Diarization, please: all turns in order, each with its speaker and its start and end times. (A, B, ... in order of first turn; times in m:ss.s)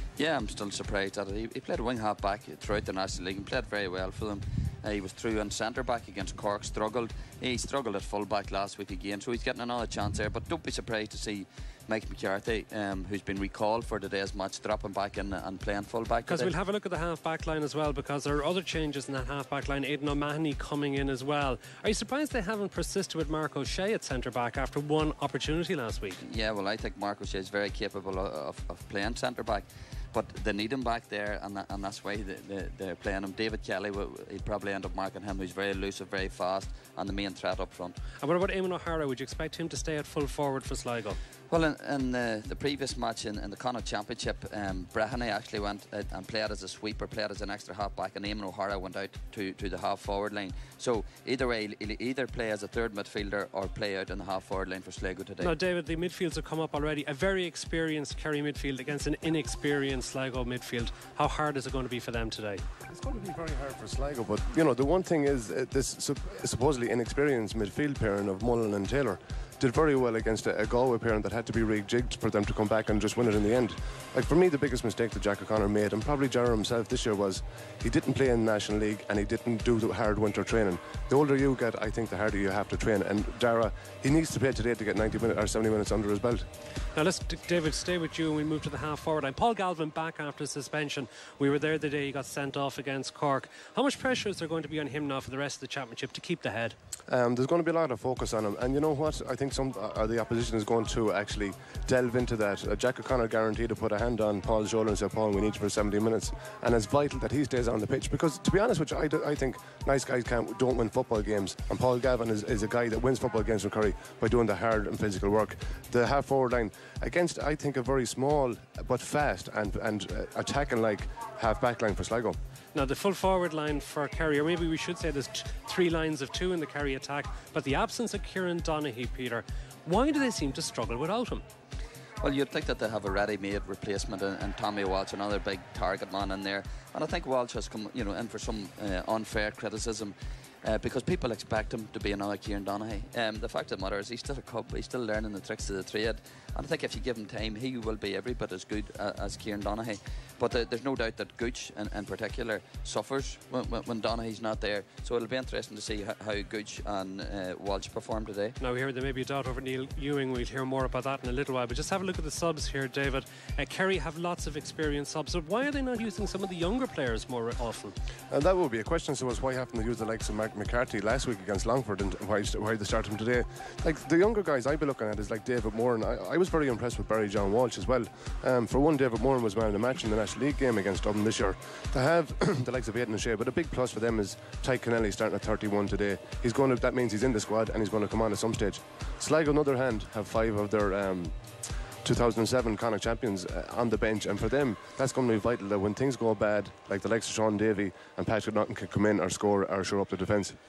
0:00.2-0:16.5 A
0:16.3-0:26.2 B
0:26.2-0:38.0 A
0:38.2-0:41.2 B
0:41.5-0:55.5 A
0:55.4-1:02.6 B
1:02.9-1:26.5 C
1:26.9-1:36.8 B
1:37.1-2:02.4 C
2:02.7-2:11.4 B
2:12.2-2:38.6 A
2:38.6-2:48.0 B
2:48.3-3:11.4 C
3:12.0-3:20.6 C